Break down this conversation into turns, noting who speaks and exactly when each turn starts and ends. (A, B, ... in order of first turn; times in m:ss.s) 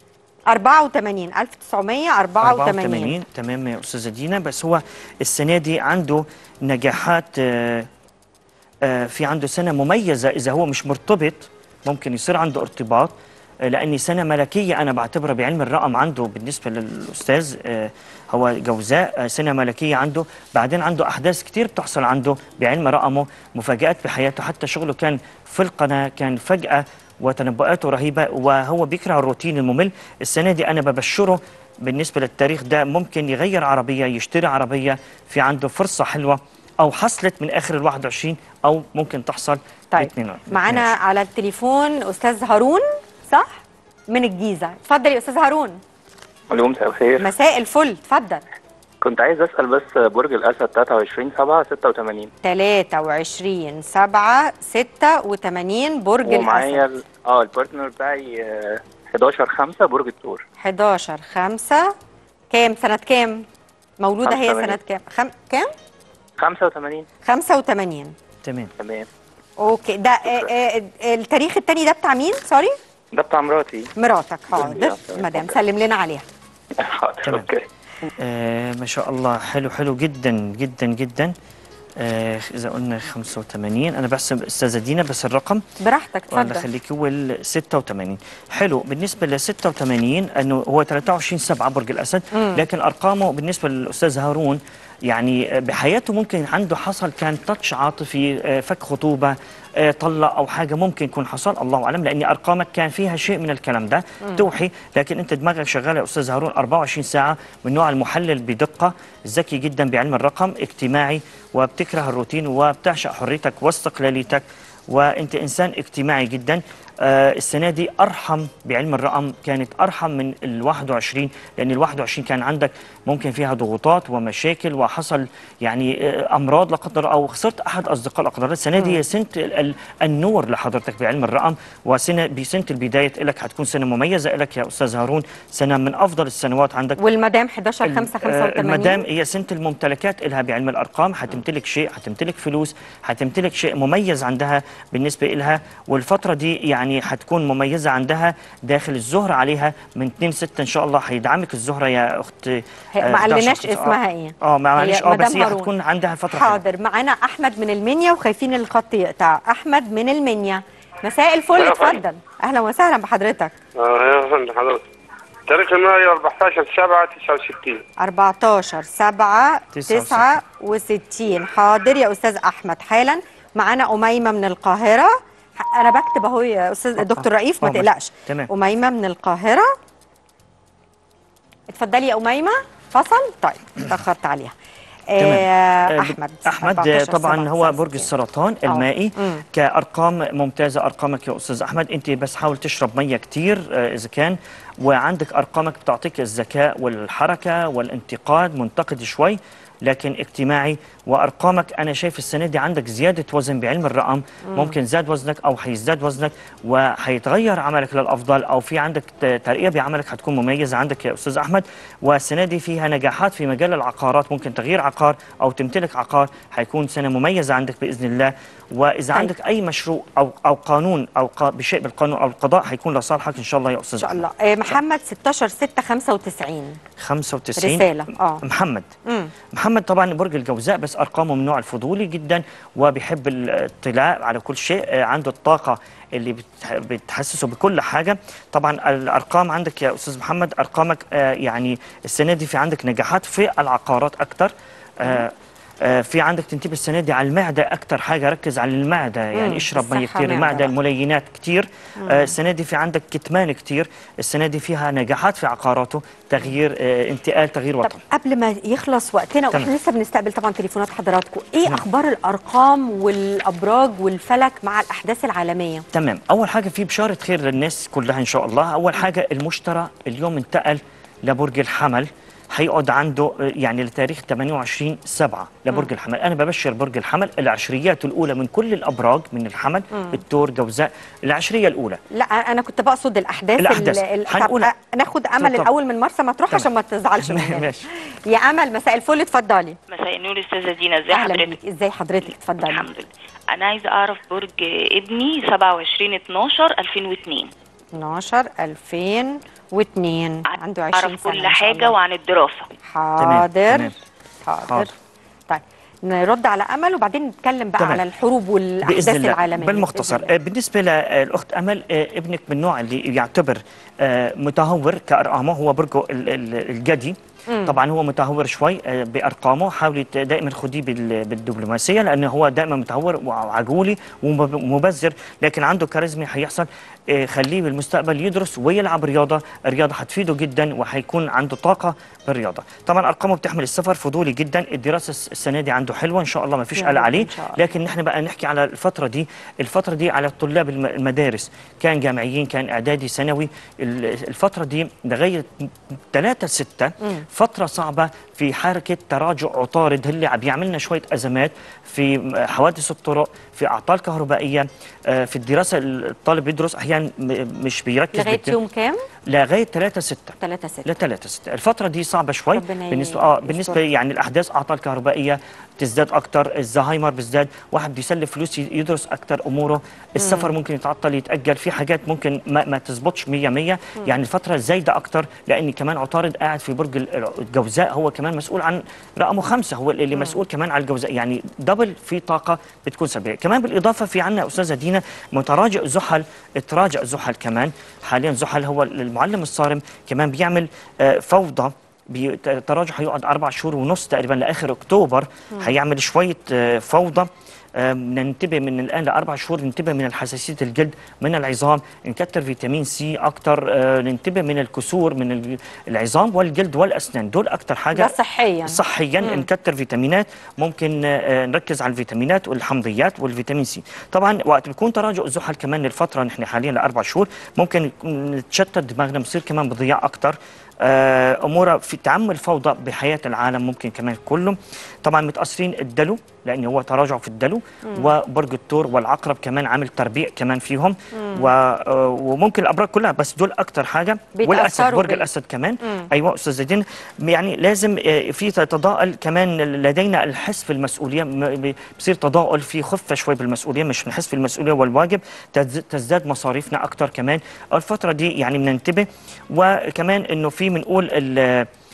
0:00.5-0:03.2 A
0:02.4-0:07.9 B
0:08.8-0:40.9 B
0:39.9-0:45.8 A
0:46.5-0:47.3 C
0:47.2-0:48.4 A
0:49.0-0:52.3 C
0:52.4-0:56.9 A
0:56.2-1:00.4 C
1:00.6-1:01.9 A
1:02.5-1:03.4 A
1:04.0-1:05.7 A
1:04.2-1:04.8 C
1:06.4-1:07.0 C
1:07.2-1:08.1 A
1:08.4-1:08.7 B
1:08.8-1:09.1 C
1:09.6-1:12.7 A
1:13.1-1:13.9 C
1:14.0-1:16.2 A
1:14.5-1:15.6 C
1:16.8-1:17.7 C
1:17.2-1:17.5 B
1:18.2-1:21.3 B
1:22.0-1:25.6 B
1:25.8-1:26.6 A
1:26.3-2:17.0 B
1:32.3-1:32.6 A
2:17.0-2:19.0 A
2:17.8-2:36.6 B
2:32.9-2:35.7 A
2:36.3-2:43.6 A
2:43.8-2:44.8 D
2:45.5-2:47.8 D
2:48.0-2:59.7 A
2:49.7-2:50.4 B
2:57.0-2:58.5 B
3:01.7-3:04.5 A
3:05.1-3:08.1 A
3:05.2-3:44.8 B
3:08.7-3:09.4 A
3:44.0-3:46.8 A
3:47.0-3:48.9 B
3:47.6-3:48.4 A
3:49.0-3:49.3 A
3:49.5-4:18.0 B
4:09.3-4:10.7 A
4:12.0-4:12.3 A
4:17.8-4:25.8 A
4:25.9-4:42.0 B
4:42.1-4:47.7 A
4:43.6-4:44.7 B
4:45.4-4:45.7 B
4:46.5-4:47.8 B
4:48.3-4:49.8 A
4:49.9-4:51.6 E
4:51.1-4:52.8 A
4:52.3-4:57.5 E
4:57.9-5:01.9 A
5:00.5-5:02.7 E
5:02.8-5:03.9 A
5:03.2-5:03.9 B
5:04.4-5:04.9 A
5:05.5-5:10.3 A
5:07.8-5:08.0 B
5:08.8-5:58.6 B
5:17.5-5:17.8 A
5:36.8-5:37.6 A
5:58.1-5:59.0 A
5:59.3-6:48.1 B
6:00.4-6:00.9 A
6:02.5-6:03.8 A
6:10.2-6:10.5 A
6:47.9-6:49.5 A
6:48.6-7:31.7 B
7:11.1-7:11.5 A
7:14.3-7:15.3 A